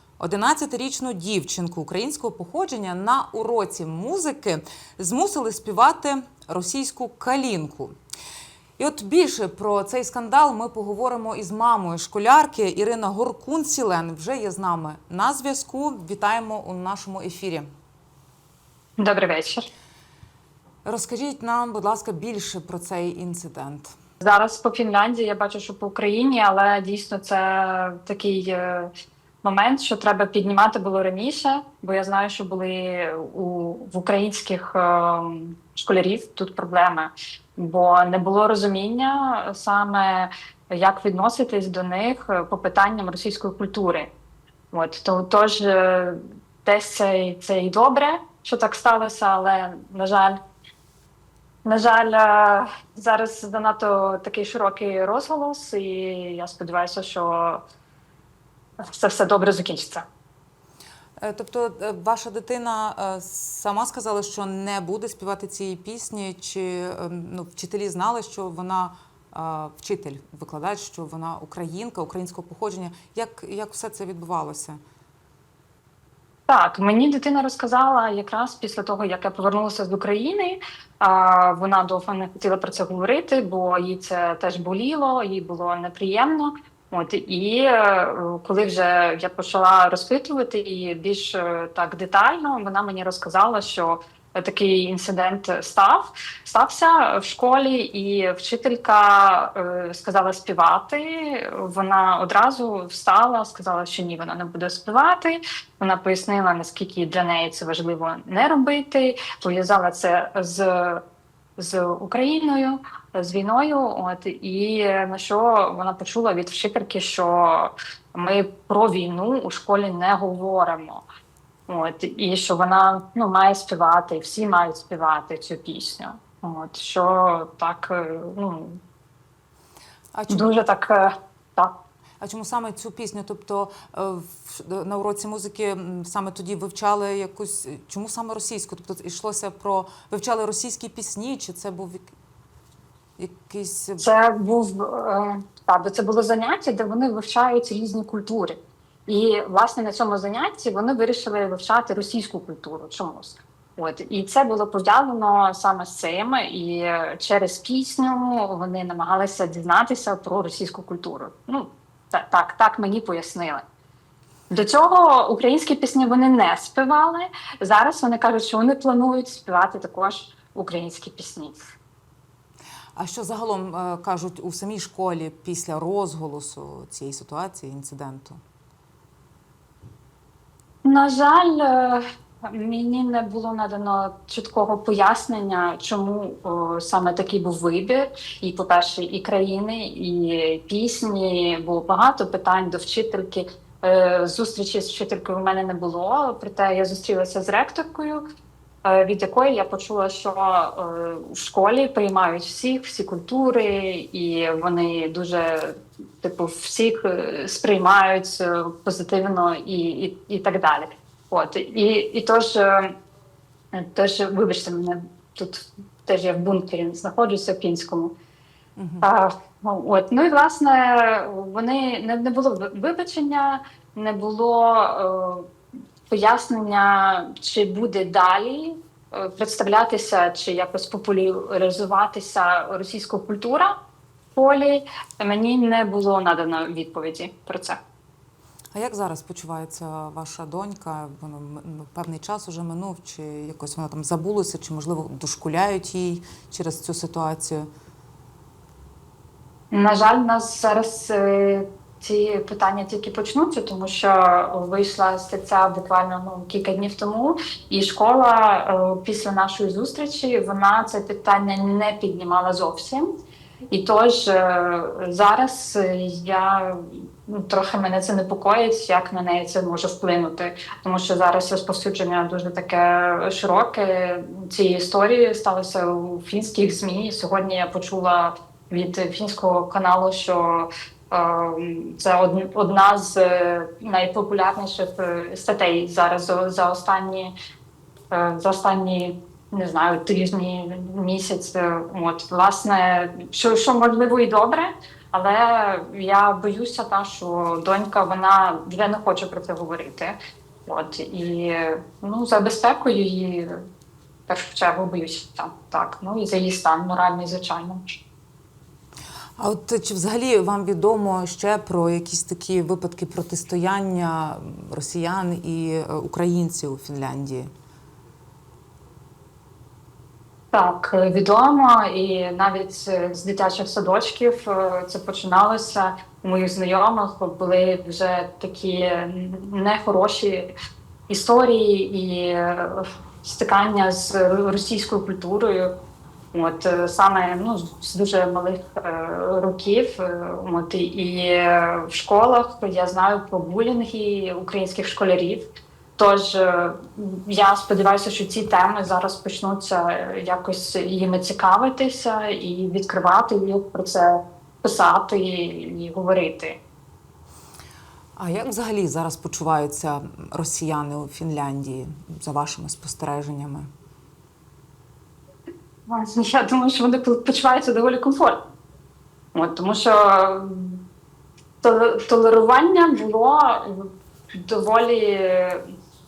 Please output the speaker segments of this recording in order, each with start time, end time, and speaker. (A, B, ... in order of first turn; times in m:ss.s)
0:00.2-0:07.9 A
0:08.8-0:17.7 A
0:19.0-0:19.7 B
0:20.8-0:23.9 A
0:24.2-0:28.9 B
0:29.4-0:44.1 B
0:44.7-0:50.4 B
0:51.6-0:57.6 B
0:58.9-1:00.0 B
1:01.2-1:14.8 A
1:16.5-1:51.0 B
1:51.6-2:01.0 B
2:01.7-2:08.8 B
2:10.1-2:10.5 A
2:10.3-2:11.7 B
2:12.2-2:22.1 A
2:23.2-2:24.0 A
2:24.0-2:43.6 B
2:44.5-2:51.6 B
2:53.0-2:58.4 A
3:00.8-3:18.2 B
3:18.8-3:32.9 B
3:33.7-3:38.1 B
3:38.8-3:39.1 A
3:39.0-3:45.5 B
3:46.1-3:53.7 B
3:54.3-3:57.8 B
3:58.7-4:07.7 A
4:09.7-4:23.1 B
4:23.7-4:47.3 B
4:48.1-5:03.5 B
5:04.3-5:07.9 B
5:09.4-5:17.5 A
5:20.5-5:30.5 B
5:31.1-5:35.7 B
5:36.3-5:56.6 B
5:58.2-6:03.7 A
6:05.9-6:08.4 B
6:09.3-6:10.8 B
6:11.6-6:13.9 B
6:14.4-6:15.6 B